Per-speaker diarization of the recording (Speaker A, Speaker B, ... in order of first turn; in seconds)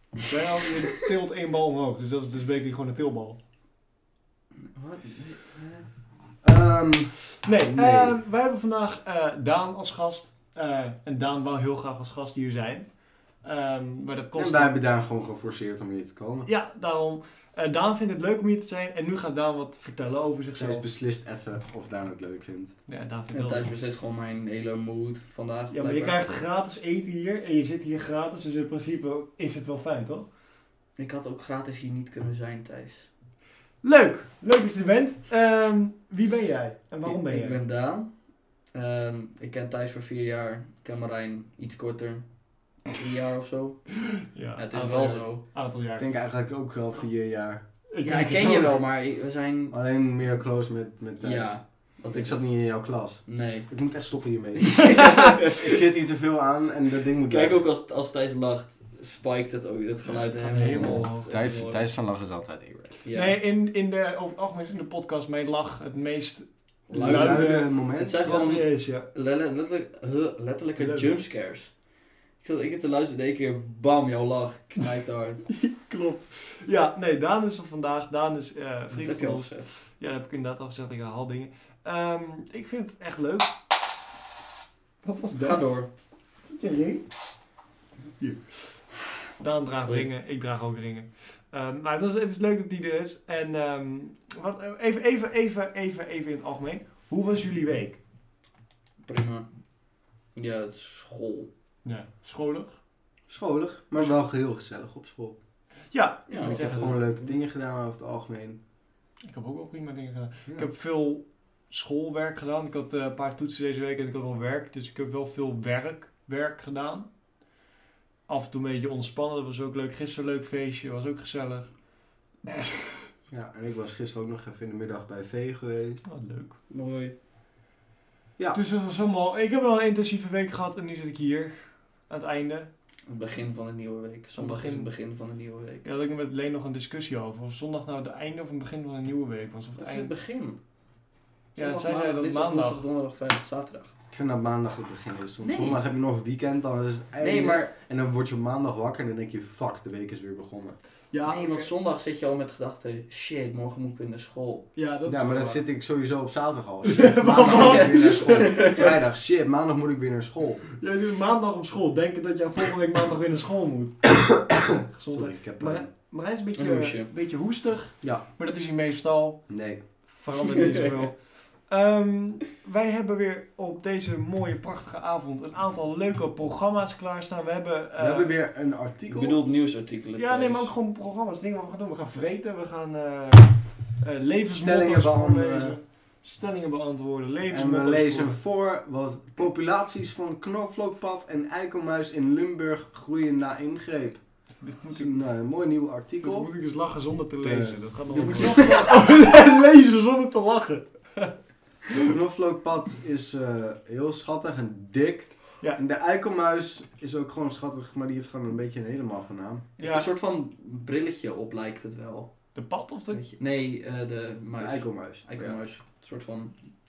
Speaker A: 0.2-3.4, 7.4-12.9, 13.4-14.7, 16.5-20.8, 22.9-23.7, 25.7-30.3, 33.8-37.6, 44.1-46.1, 47.9-48.8, 54.9-55.4, 60.1-61.3, 63.1-69.1, 70.8-71.1, 75.5-83.5, 85.0-85.8, 86.5-87.0, 88.2-88.8, 89.4-98.0, 101.8-102.8, 105.9-107.1, 109.3-117.1, 118.3-121.7, 122.5-122.9, 126.0-126.6, 128.5-131.6, 132.1-132.7, 134.4-134.9, 135.8-140.1, 141.6-142.8, 151.1-151.7, 154.8-155.6, 156.8-158.9, 160.8-164.2, 164.7-169.5, 170.1-178.3, 180.2-188.4, 194.6-195.3, 196.2-201.3, 209.8-210.1, 212.6-213.3
Speaker B: 4.8-5.9, 23.3-26.3, 31.0-33.1, 37.1-38.1, 38.7-42.3, 42.9-43.9, 44.6-45.4, 48.0-49.8, 51.2-52.4, 53.3-53.7, 54.8-55.8, 57.3-61.8, 63.0-63.4, 66.9-71.7, 72.4-75.5, 78.9-79.8, 85.4-85.9, 99.0-99.5, 100.3-101.5, 106.3-107.3, 126.7-127.1, 133.1-135.9, 139.8-140.6, 141.6-143.9, 145.4-145.8, 147.2-147.7, 151.3-154.7, 157.5-158.9, 166.6-167.1, 170.4-171.1, 179.1-180.7, 209.8-212.3, 213.1-216.6
Speaker C: 6.4-7.2, 7.7-8.2, 14.3-16.5, 20.6-22.7, 46.0-47.6, 49.7-51.6, 52.1-57.6, 61.3-63.0, 66.9-68.2, 103.3-105.4, 106.4-108.6, 123.3-126.0, 144.1-150.8, 155.1-160.7, 164.5-165.9, 169.5-169.8, 178.0-179.4, 184.5-185.8, 187.5-194.2, 194.9-196.5, 197.4-199.0, 201.9-209.7, 214.6-215.6